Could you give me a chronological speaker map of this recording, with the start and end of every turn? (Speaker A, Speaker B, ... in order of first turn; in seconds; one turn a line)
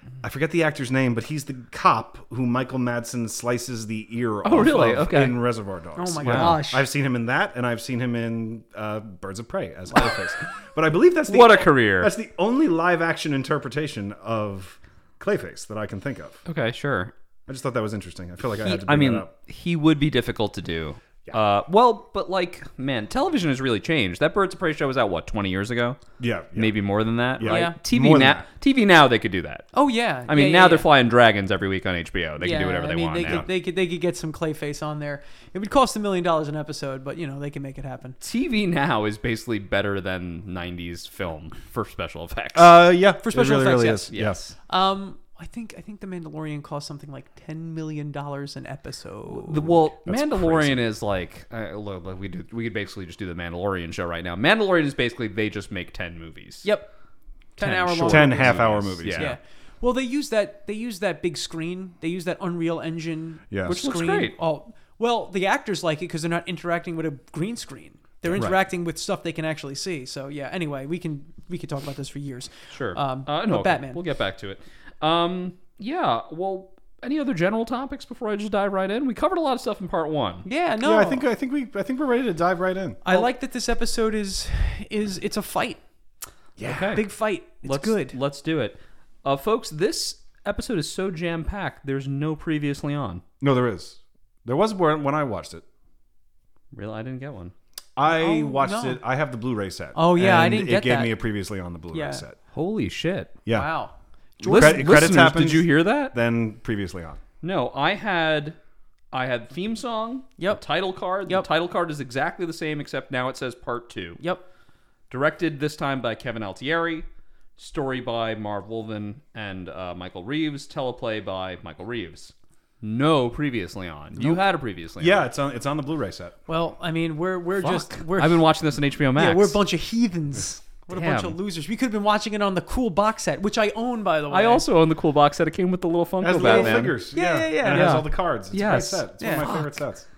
Speaker A: 0.2-16.4
Speaker B: 4.4-5.4
Speaker C: 6.0-6.9
Speaker B: 6.2-6.6
Speaker B: 11.3-12.1
Speaker B: 16.5-17.1
Speaker A: 17.5-19.3
Speaker B: 18.6-26.0
Speaker A: 26.2-26.7
Speaker B: 26.6-29.7
Speaker A: 27.4-28.4
Speaker C: 27.5-27.8
Speaker C: 29.7-30.9
Speaker B: 30.3-33.5
Speaker C: 32.4-38.2
Speaker B: 38.2-42.8
Speaker A: 42.5-44.5
Speaker C: 43.2-44.1
Speaker B: 44.1-44.4
Speaker C: 44.7-49.8
Speaker B: 49.3-56.7
Speaker A: 50.0-50.8
Speaker C: 56.6-56.9
Speaker C: 57.6-58.6
Speaker B: 57.6-59.4
Speaker A: 58.0-59.4
Speaker C: 59.1-74.0
Speaker A: 63.5-63.8
Speaker B: 63.7-64.4
Speaker B: 72.7-80.5
Speaker C: 80.5-81.2
Speaker A: 80.8-83.0
Speaker C: 83.0-85.8
Speaker A: 86.6-87.0
Speaker B: 86.6-93.2
Speaker C: 86.7-88.2
Speaker A: 93.4-95.7
Speaker B: 96.7-97.5
Speaker A: 98.0-102.4
Speaker C: 98.1-99.0
Speaker C: 100.0-101.2
Speaker C: 101.9-102.2
Speaker B: 102.5-103.3
Speaker C: 103.5-104.9
Speaker B: 104.4-106.1
Speaker A: 104.5-107.2
Speaker B: 107.4-108.6
Speaker B: 109.1-114.2
Speaker B: 115.1-125.3
Speaker A: 125.0-126.4
Speaker C: 126.5-128.5
Speaker B: 127.6-129.6
Speaker C: 129.2-134.6
Speaker B: 130.9-131.4
Speaker B: 134.3-137.0
Speaker A: 136.2-140.1
Speaker C: 136.3-138.0
Speaker B: 137.7-139.7
Speaker C: 139.2-139.5